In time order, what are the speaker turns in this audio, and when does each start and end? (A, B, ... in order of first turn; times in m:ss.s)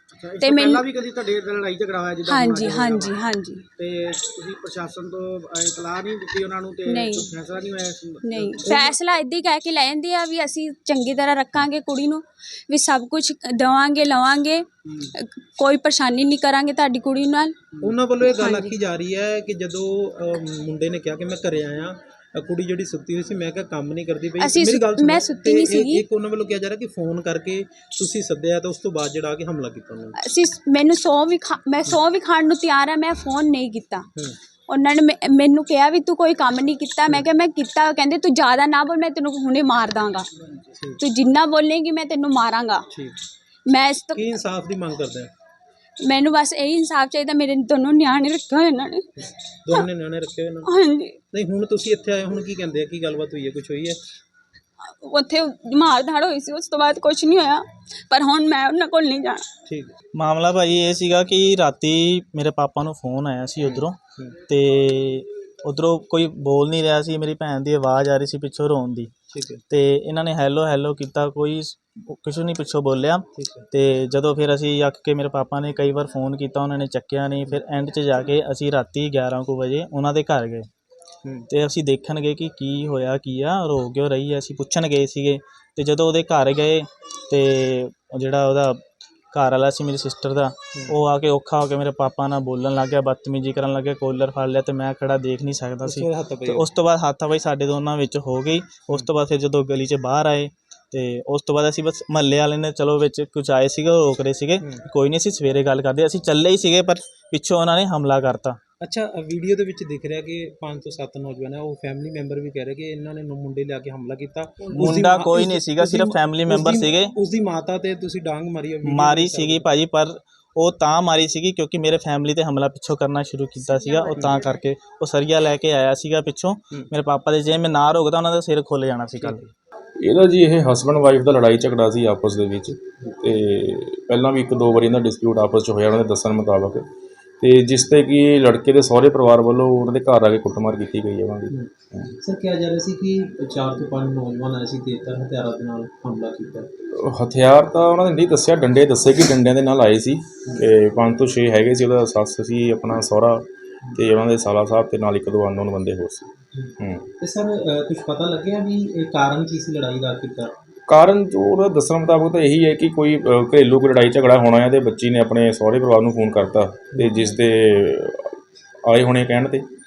0:00.2-0:03.1 A
0:00.4-0:00.8 B
0:02.2-0:03.6 B
0:03.8-0:09.0 A
0:06.9-0:07.3 B
0:08.2-0:17.6 B
0:08.6-0:08.9 C
0:14.8-0:15.1 A
0:17.8-0:30.2 C
0:18.2-0:18.7 B
0:24.4-0:26.0 B
0:30.2-0:34.1 B
0:34.7-0:40.3 B
0:41.0-0:42.8 B
0:42.9-0:43.2 C
0:43.7-0:44.3 B
0:44.1-0:45.3 C
0:46.0-0:49.1 B
0:49.6-0:50.7 C
0:50.6-0:51.2 B
0:51.3-0:54.0 C
0:55.0-0:59.4 B
0:59.6-0:59.9 C
1:00.1-1:04.0 D
1:03.6-1:04.4 C
1:04.5-1:09.1 D
1:09.3-1:09.6 C
1:09.7-1:20.7 D
1:13.3-1:13.7 C
1:21.5-1:48.6 D
1:35.8-1:36.7 C
1:48.8-1:59.7 C
1:54.7-1:57.1 D
1:58.8-2:09.4 D
2:04.1-2:04.4 C
2:10.0-2:16.9 E
2:17.4-2:22.1 E
2:22.2-2:26.7 C
2:26.9-2:37.1 E
2:36.5-2:40.5 C
2:40.9-2:49.7 E
2:46.9-2:47.2 C